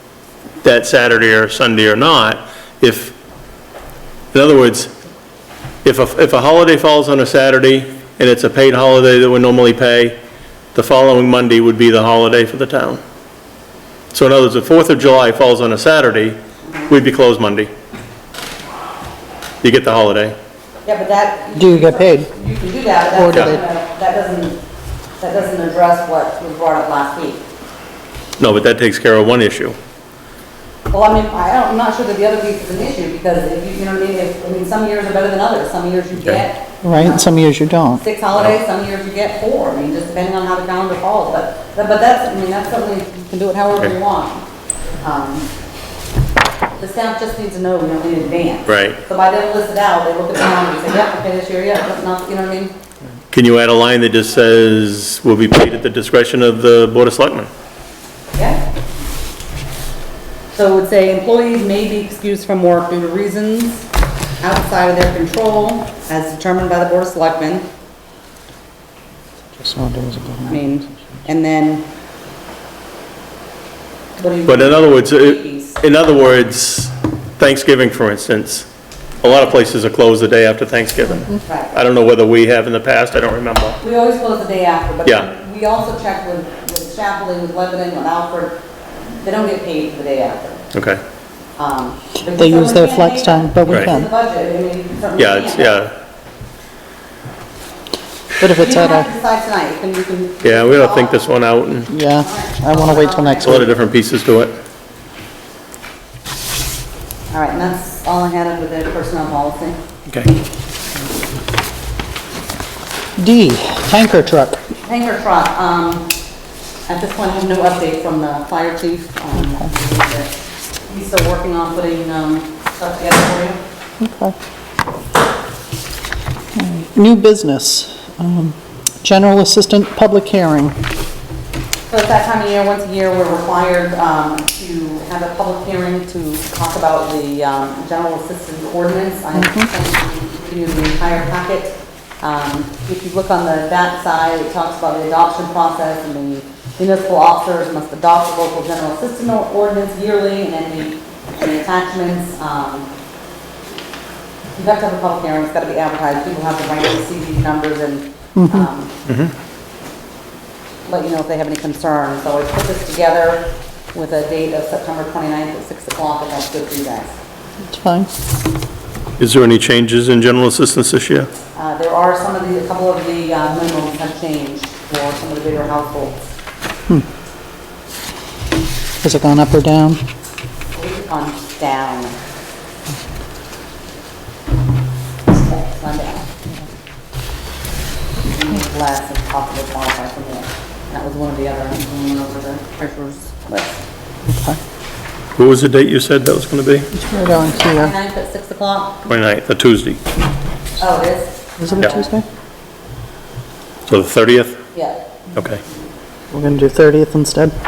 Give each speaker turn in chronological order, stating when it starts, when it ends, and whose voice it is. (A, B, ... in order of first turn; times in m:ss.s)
0:00.6-0:03.1 A
0:04.3-0:04.9 A
0:05.8-0:10.2 A
0:10.7-0:13.0 A
0:14.1-0:16.4 A
0:16.6-0:16.9 B
0:16.9-0:17.7 A
0:19.6-0:20.3 A
0:20.8-0:24.6 B
0:21.6-0:22.3 C
0:23.1-0:23.6 C
0:25.2-0:27.4 B
0:28.4-0:29.8 A
0:30.9-0:37.3 B
0:36.8-0:38.0 C
0:37.9-0:44.4 B
0:45.0-0:45.5 B
0:46.8-0:52.7 B
0:48.7-0:49.0 A
0:53.3-0:57.5 A
0:58.3-0:58.6 B
1:00.5-1:03.9 B
1:04.4-1:07.7 B
1:09.6-1:10.6 C
1:10.4-1:11.9 B
1:14.2-1:15.8 B
1:14.4-1:18.7 A
1:19.2-1:23.8 A
1:21.4-1:21.7 B
1:23.8-1:28.6 B
1:29.2-1:30.7 B
1:30.7-1:31.0 A
1:31.6-1:35.8 B
1:32.3-1:34.1 C
1:35.2-1:35.9 A
1:38.4-1:39.1 C
1:38.4-1:41.3 B
1:40.4-1:41.9 A
1:41.9-1:43.7 C
1:42.1-1:43.7 B
1:43.4-1:44.6 A
1:47.3-1:49.8 B
1:53.2-1:54.6 C
1:54.8-1:56.1 B
1:56.9-2:00.3 B
2:00.8-2:03.6 B
2:04.0-2:04.3 C
2:06.5-2:10.8 C
2:11.9-2:32.9 B
2:19.3-2:19.7 C
2:34.6-2:38.9 B
2:38.3-2:38.7 C
2:39.0-2:39.3 A
2:40.8-2:47.2 B
2:47.6-2:48.1 C
2:49.2-2:51.3 A
2:51.5-2:56.2 B
2:59.0-3:00.0 C
3:00.7-3:02.2 B
3:05.3-3:06.3 B
3:08.2-3:13.8 B
3:14.3-3:14.6 C
3:15.4-3:16.9 A
3:16.9-3:17.9 C
3:17.2-3:19.0 B
3:19.0-3:20.0 A
3:20.8-3:22.1 B
3:21.6-3:22.2 C
3:23.9-3:24.6 A
3:24.7-3:25.0 B
3:25.3-3:25.6 A
3:26.3-3:27.5 C